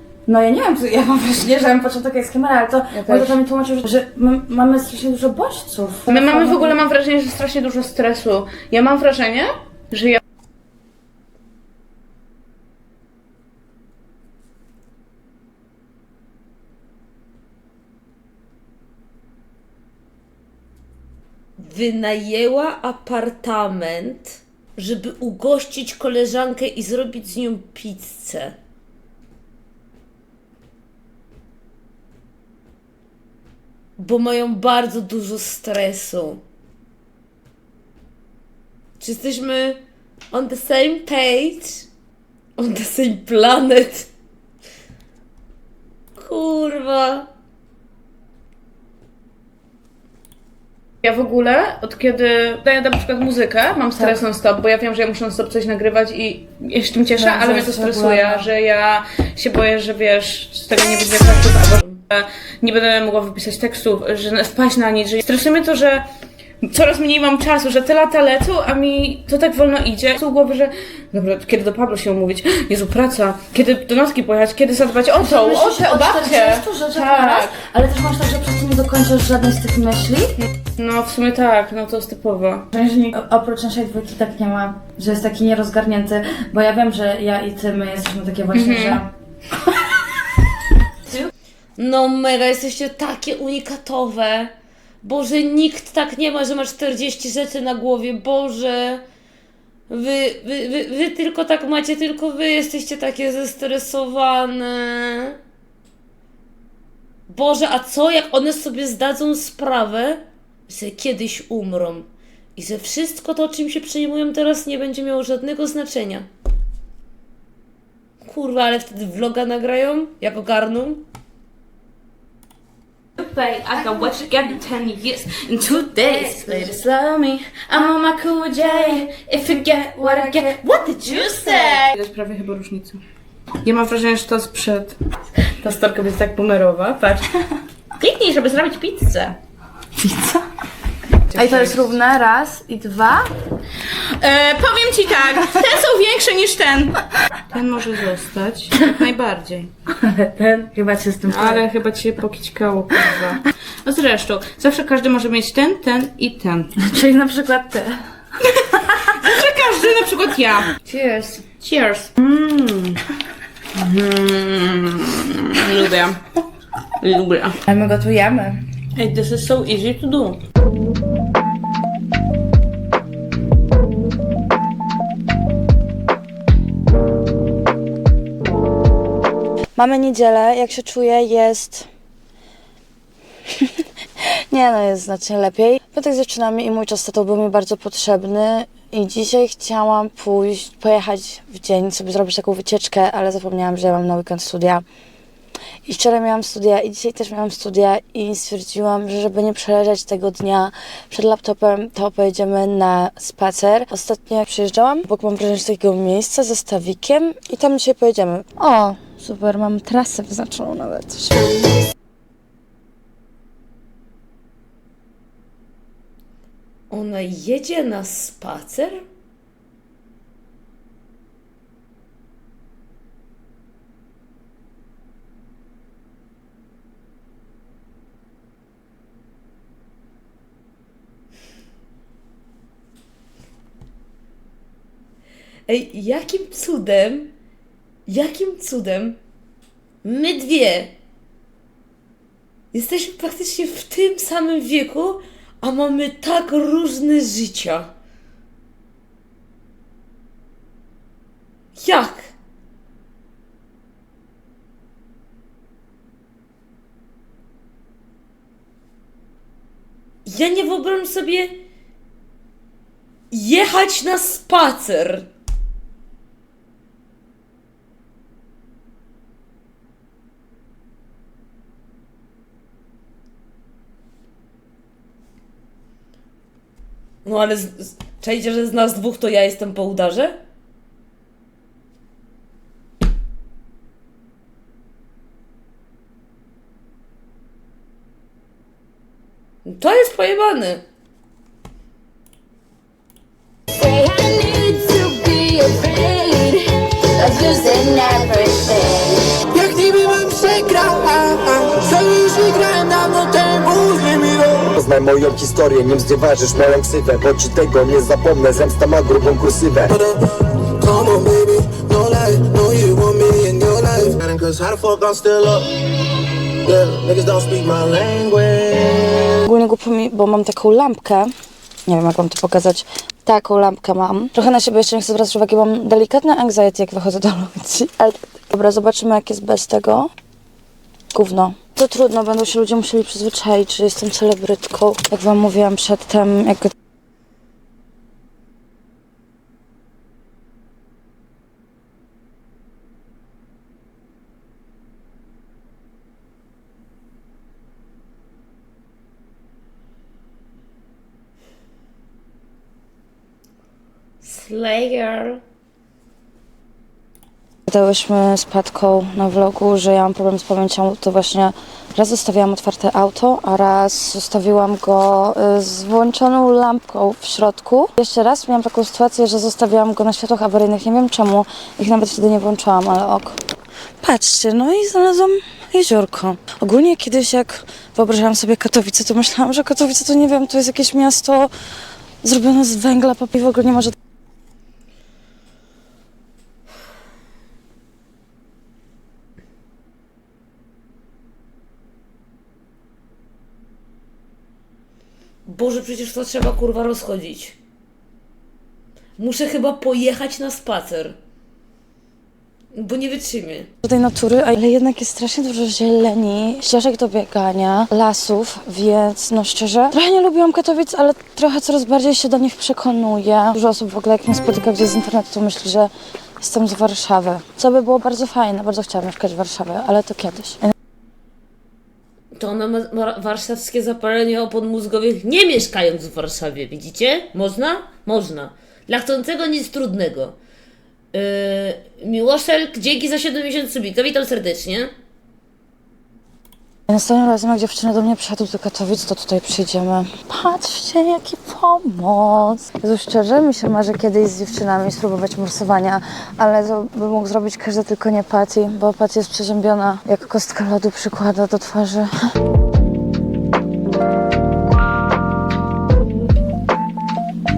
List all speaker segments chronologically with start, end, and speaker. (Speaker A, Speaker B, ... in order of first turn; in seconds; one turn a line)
Speaker A: 0.3-6.8
Speaker B: 2.9-3.4
Speaker B: 6.1-10.2
Speaker C: 21.6-28.6
Speaker C: 34.0-36.4
Speaker C: 39.0-39.8
Speaker C: 40.3-41.9
Speaker C: 42.6-44.1
Speaker C: 46.2-47.3
Speaker B: 51.0-66.1
Speaker A: 57.2-58.5
Speaker B: 66.6-77.6
Speaker A: 75.2-80.4
Speaker B: 80.8-82.7
Speaker A: 82.7-89.1
Speaker B: 88.5-89.0
Speaker C: 91.8-99.0
Speaker C: 99.9-105.4
Speaker C: 107.3-116.3
Speaker C: 118.2-121.0
Speaker B: 123.2-133.0
Speaker B: 133.6-137.3
Speaker B: 138.0-139.4
Speaker A: 140.0-140.4
Speaker B: 141.3-141.9
Speaker A: 141.3-143.3
Speaker B: 143.8-149.7
Speaker A: 149.9-151.7
Speaker B: 151.2-156.8
Speaker A: 156.8-158.0
Speaker B: 158.5-160.7
Speaker A: 160.9-161.4
Speaker B: 161.5-162.1
Speaker A: 162.2-163.0
Speaker B: 163.7-166.2
Speaker B: 167.0-167.6
Speaker A: 167.7-168.6
Speaker B: 168.9-170.4
Speaker A: 179.8-181.9
Speaker A: 184.5-194.8
Speaker A: 195.9-211.7
Speaker C: 216.9-219.0
Speaker C: 235.7-237.3
Speaker C: 238.1-239.2
Speaker C: 240.0-240.9
Speaker C: 242.7-247.9
Speaker C: 251.8-252.3
Speaker C: 260.2-261.6
Speaker C: 263.3-265.3
Speaker C: 277.2-280.4
Speaker C: 289.6-290.8
Speaker D: 293.8-299.5
Speaker E: 299.6-304.8
Speaker F: 304.8-309.9
Speaker E: 309.9-310.2
Speaker E: 310.7-315.8
Speaker E: 316.6-319.3
Speaker A: 319.4-321.3
Speaker A: 321.9-330.1
Speaker A: 331.1-336.7
Speaker C: 354.2-355.4
Speaker A: 357.7-373.4
Speaker A: 374.0-381.5
Speaker A: 382.2-383.9
Speaker C: 395.5-397.6
Speaker C: 399.2-401.2
Speaker C: 402.7-403.7
Speaker A: 403.8-420.6
Speaker C: 422.4-430.4
Speaker C: 431.1-434.9
Speaker A: 436.9-452.1